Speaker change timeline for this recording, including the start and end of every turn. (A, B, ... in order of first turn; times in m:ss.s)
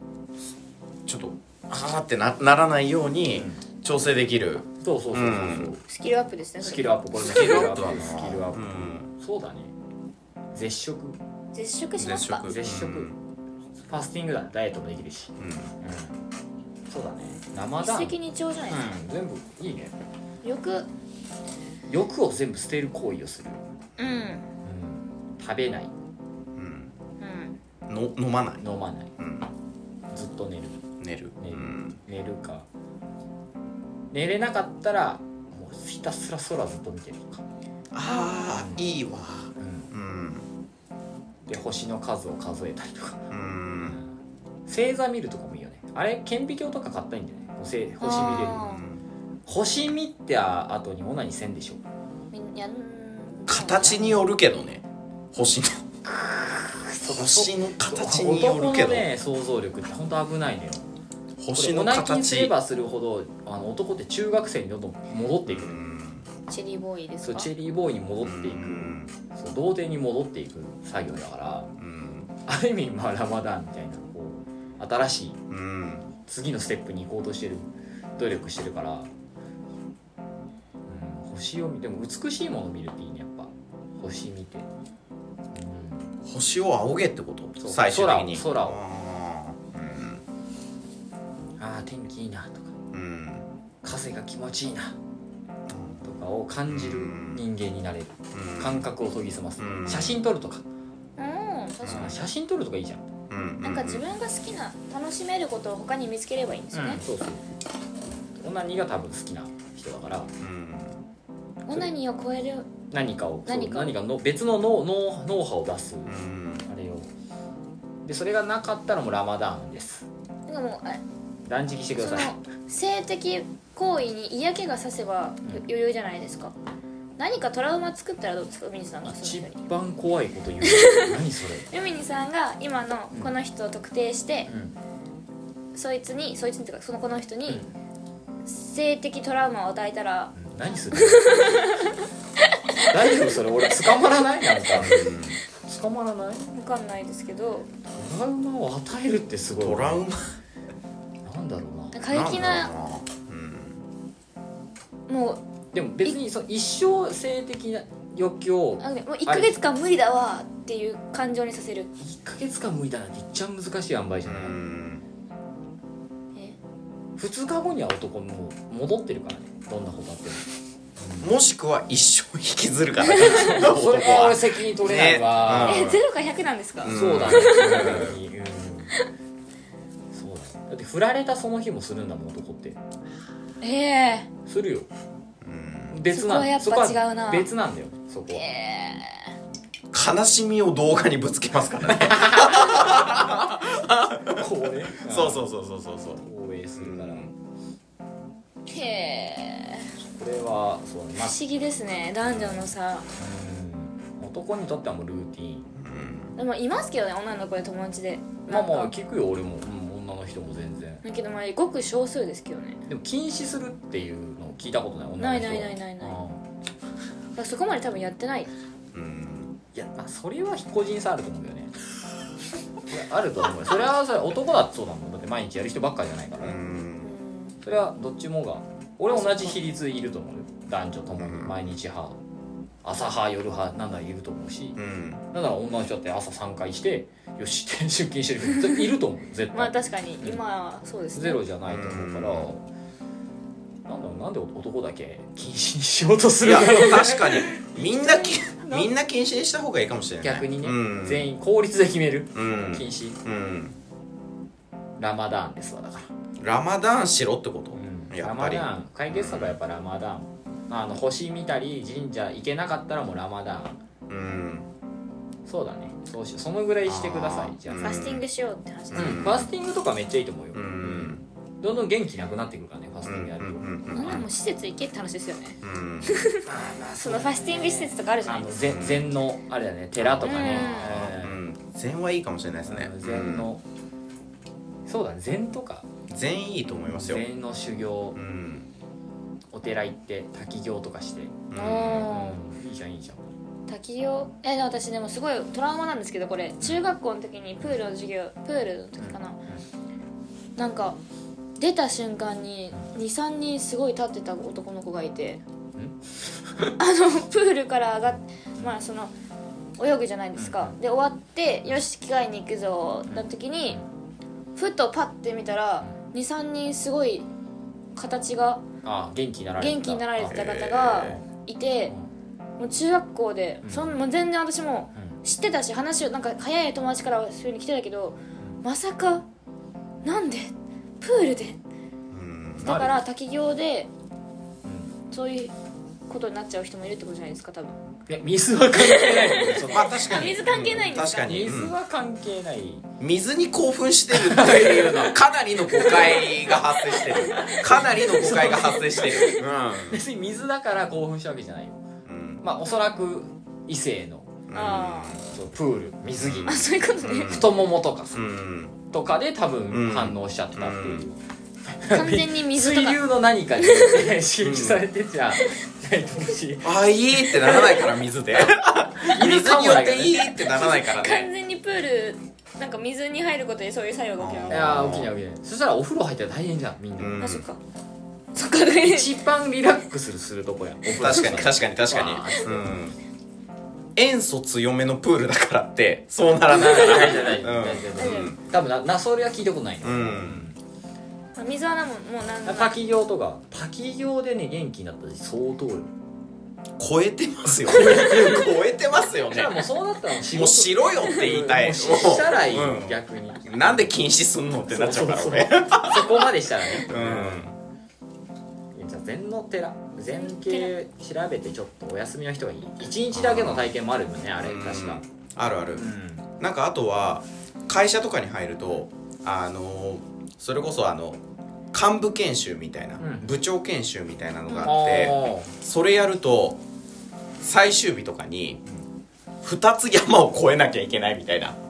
0:01.1-0:05.7 A
0:03.3-0:03.6 B
0:04.8-0:05.8 B
0:05.9-0:07.7 C
0:06.6-0:09.7 B
0:07.2-0:09.1 A
0:10.5-0:11.2 B
0:11.5-0:12.5 C
0:12.0-0:13.2 A
0:12.4-0:13.1 B
0:13.8-0:16.2 B
0:15.4-0:15.7 A
0:16.9-0:18.2 B
0:17.8-0:18.9 C
0:18.7-0:19.9 B
0:20.4-0:20.9 C
0:21.9-0:23.6 B
0:24.0-0:24.5 C
0:24.6-0:25.9 B
0:26.6-0:26.9 A
0:27.2-0:27.6 C
0:27.9-0:28.6 A
0:28.6-0:29.1 B
0:29.2-0:29.5 A
0:30.1-0:30.8 B
0:31.0-0:32.0 A
0:31.4-0:32.7 B
0:34.1-0:37.4 B
0:37.9-0:40.5 A
0:38.0-0:38.7 C
0:38.5-0:38.8 B
0:39.6-0:39.9 B
0:41.5-0:43.2 B
0:43.3-0:44.0 A
0:43.8-0:44.1 B
0:44.7-0:48.6 B
0:48.0-0:48.8 C
0:48.2-0:49.0 A
0:49.5-0:51.8 B
0:52.3-0:54.0 C
0:53.5-0:55.8 A
0:53.7-0:54.2 B
0:56.0-1:00.9 B
0:57.1-0:59.1 A
1:01.4-1:02.5 A
1:01.6-1:05.8 B
1:05.5-1:06.3 A
1:06.5-1:07.5 C
1:07.2-1:11.7 B
1:08.2-1:09.1 A
1:11.8-1:12.3 A
1:12.5-1:15.4 B
1:15.5-1:16.1 A
1:16.3-1:19.1 B
1:20.9-1:24.7 B
1:25.5-1:26.1 B
1:26.2-1:30.2 A
1:27.6-1:28.8 B
1:31.6-1:32.7 B
1:32.9-1:33.5 A
1:33.8-1:35.0 B
1:35.7-1:36.0 A
1:36.0-1:40.6 B
1:36.7-1:37.4 A
1:38.3-1:38.8 A
1:39.6-1:40.2 A
1:41.2-1:42.2 C
1:41.8-1:42.2 A
1:41.9-1:43.0 B
1:43.3-1:44.0 A
1:43.6-1:47.0 C
1:46.7-1:47.4 B
1:48.4-1:50.3 B
1:50.4-1:51.0 A
1:51.7-1:52.7 C
1:52.9-1:57.1 B
1:53.5-1:54.0 C
1:56.1-1:56.6 A
1:58.0-2:00.1 B
2:00.5-2:01.0 C
2:01.5-2:02.3 B
2:02.0-2:06.6 C
2:07.2-2:09.6 C
2:09.1-2:11.7 B
2:10.6-2:14.5 C
2:14.5-2:14.8 B
2:15.8-2:17.6 C
2:18.5-2:20.3 C
2:20.3-2:21.7 B
2:20.9-2:22.6 C
2:22.9-2:25.1 B
2:24.7-2:25.4 A
2:25.7-2:26.5 B
2:26.5-2:27.7 C
2:27.9-2:30.0 B
2:29.6-2:30.4 A
2:31.2-2:32.6 B
2:31.9-2:32.7 C
2:32.1-2:33.8 A
2:35.1-2:35.4 C
2:35.7-2:39.5 B
2:38.8-2:41.9 C
2:42.0-2:44.6 B
2:44.3-2:45.0 A
2:47.2-2:50.4 B
2:51.0-2:51.3 B
2:51.2-2:56.0 A
2:53.0-2:53.7 C
2:53.5-2:55.9 B
2:55.6-2:58.0 C
2:56.8-2:58.2 A
2:56.9-2:59.0 B
3:00.1-3:02.8 B
3:03.6-3:04.3 C
3:04.5-3:04.9 B
3:05.4-3:06.0 A
3:05.9-3:08.5 B
3:06.1-3:07.5 C
3:08.3-3:09.3 C
3:09.9-3:16.2 A
3:12.0-3:12.8 B
3:14.3-3:15.5 B
3:16.2-3:17.3 B
3:16.8-3:17.3 A
3:18.7-3:19.9 C
3:20.2-3:21.4 B
3:21.2-3:23.1 C
3:22.3-3:22.6 A
3:23.2-3:25.7 B
3:25.8-3:26.4 A
3:26.4-3:28.9 C
3:28.5-3:31.0 B
3:31.0-3:32.8 C
3:32.9-3:36.4 B
3:35.2-3:36.2 C
3:37.4-3:38.5 C
3:38.9-3:39.5 A
3:39.7-3:41.7 B
3:42.9-3:46.6 B
3:46.4-3:47.1 A
3:47.0-3:47.6 C
3:47.6-3:52.2 B
3:49.1-3:49.6 C
3:51.2-3:51.6 A
3:52.8-3:54.8 B
3:54.8-3:55.2 A
3:55.3-4:00.4 B
3:59.5-4:01.4 C
4:01.2-4:02.6 B
4:01.7-4:02.5 A
4:03.9-4:08.9 B
4:06.4-4:11.3 A
4:10.2-4:13.2 B
4:12.4-4:13.8 A
4:15.0-4:16.1 B
4:16.4-4:19.6 A
4:17.7-4:23.8 B
4:24.1-4:24.7 A
4:25.5-4:28.1 B
4:26.9-4:28.2 A
4:27.8-4:29.3 C
4:28.9-4:29.5 A
4:29.0-4:34.2 B
4:30.5-4:31.2 A
4:33.0-4:34.2 A
4:33.9-4:36.4 C
4:35.6-4:36.1 A
4:36.4-4:41.4 B
4:37.0-4:38.6 C
4:38.7-4:39.1 A
4:40.0-4:43.5 A
4:40.2-4:40.9 C
4:42.6-4:43.6 B
4:44.9-4:45.9 B
4:46.1-4:47.3 A
4:46.9-4:48.2 B
4:48.2-4:48.7 A
4:49.5-4:51.4 B
4:51.5-4:52.1 A
4:51.6-4:52.4 C
4:51.9-4:53.3 B
4:53.7-4:59.4 C
4:59.0-4:59.6 B
5:00.6-5:01.0 C
5:01.6-5:05.4 C
5:05.8-5:06.8 B
5:06.8-5:09.1 C
5:08.1-5:08.7 B
5:09.8-5:13.8 C
5:10.4-5:10.8 B
5:13.1-5:13.8 B
5:14.6-5:17.3 C
5:18.0-5:18.6 C
5:18.8-5:20.4 B
5:19.6-5:21.9 C
5:20.2-5:21.2 A
5:22.6-5:29.2 C
5:23.6-5:24.0 B
5:30.0-5:31.6 C
5:32.1-5:32.8 A
5:32.6-5:33.0 B
5:32.6-5:33.9 C
5:34.6-5:34.9 B
5:35.1-5:35.5 C
5:36.1-5:37.8 C
5:38.1-5:40.2 B
5:38.8-5:41.4 C
5:39.7-5:41.7 A
5:41.3-5:42.8 B
5:43.0-5:50.0 A
5:44.1-5:45.2 B
5:45.8-5:47.9 C
5:47.3-5:51.8 B
5:49.0-5:49.4 C
5:52.1-5:52.4 A
5:52.4-5:54.4 B
5:54.5-5:55.2 A
5:54.5-5:55.2 C
5:55.3-5:56.5 B
5:56.2-5:57.6 A
5:56.5-5:57.5 C
5:57.3-5:58.2 B
5:58.1-5:58.8 A
5:58.9-6:07.8 B
5:59.7-6:01.0 A
6:01.9-6:03.0 C
6:03.6-6:04.2 C
6:04.4-6:04.8 A
6:06.6-6:11.3 A
6:09.0-6:10.3 B
6:10.1-6:14.7 C
6:14.2-6:15.1 A
6:14.5-6:17.2 B
6:17.0-6:17.4 A
6:17.2-6:17.6 C
6:18.3-6:19.1 C
6:18.8-6:22.8 B
6:20.9-6:23.0 A
6:24.0-6:28.4 A
6:26.5-6:30.6 B
6:28.0-6:28.3 C
6:29.8-6:30.4 A
6:31.4-6:32.8 C
6:32.5-6:35.9 B
6:36.8-6:39.6 A
6:37.5-6:38.5 B
6:39.3-6:44.0 B
6:40.3-6:46.3 A
6:44.6-6:47.5 B
6:46.8-6:47.6 A
6:48.7-6:55.0 B
6:50.1-6:50.7 C
6:53.1-6:53.7 A
6:54.4-6:55.8 A
6:55.8-6:56.2 B
6:56.4-7:01.2 A
7:01.7-7:06.6 A
7:03.0-7:03.3 B
7:04.6-7:05.5 B
7:07.4-7:08.6 A
7:09.4-7:11.6 A